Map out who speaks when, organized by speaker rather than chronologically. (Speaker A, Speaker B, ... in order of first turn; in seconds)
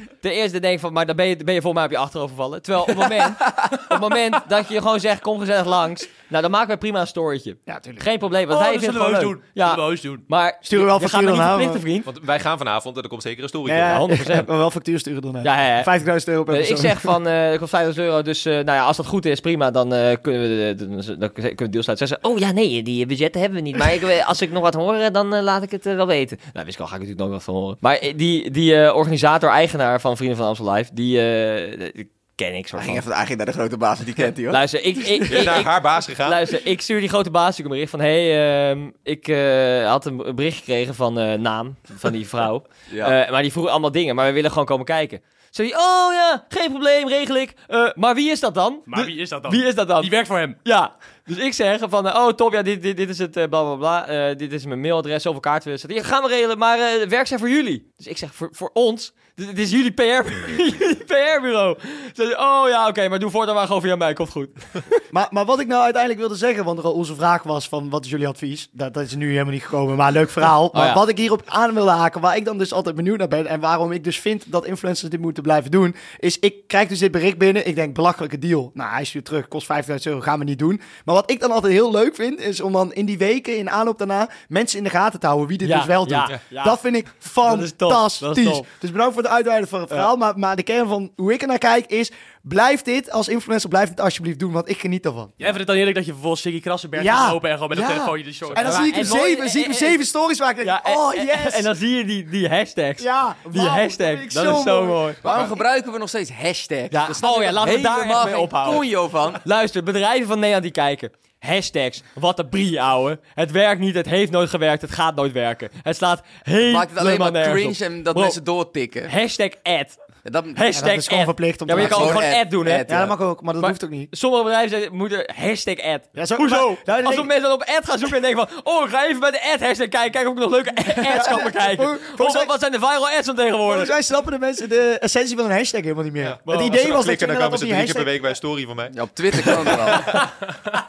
Speaker A: 0.2-12.1, 13.9-14.5, 15.4-15.9, 16.5-33.0, 34.5-64.9, 70.7-71.0, 85.6-86.8, 87.4-88.6, 98.6-100.0, 100.6-105.4, 106.9-108.9, 109.4-118.4, 119.1-120.0, 120.5-122.9, 123.6-133.9
Speaker B: 2.9-4.0, 32.8-35.5, 42.9-43.1, 105.2-109.4, 116.6-119.1, 120.2-120.6, 121.7-123.1, 138.9-140.1
Speaker C: 7.7-8.1, 10.7-11.8, 13.7-17.1, 65.1-95.3, 97.0-101.7, 103.0-105.6, 120.7-124.1, 126.1-127.3, 131.0-132.5, 133.7-138.1
Speaker D: 8.5-10.2, 48.9-50.6, 95.4-99.1
Speaker E: 12.1-14.1, 35.3-36.4, 136.2-140.1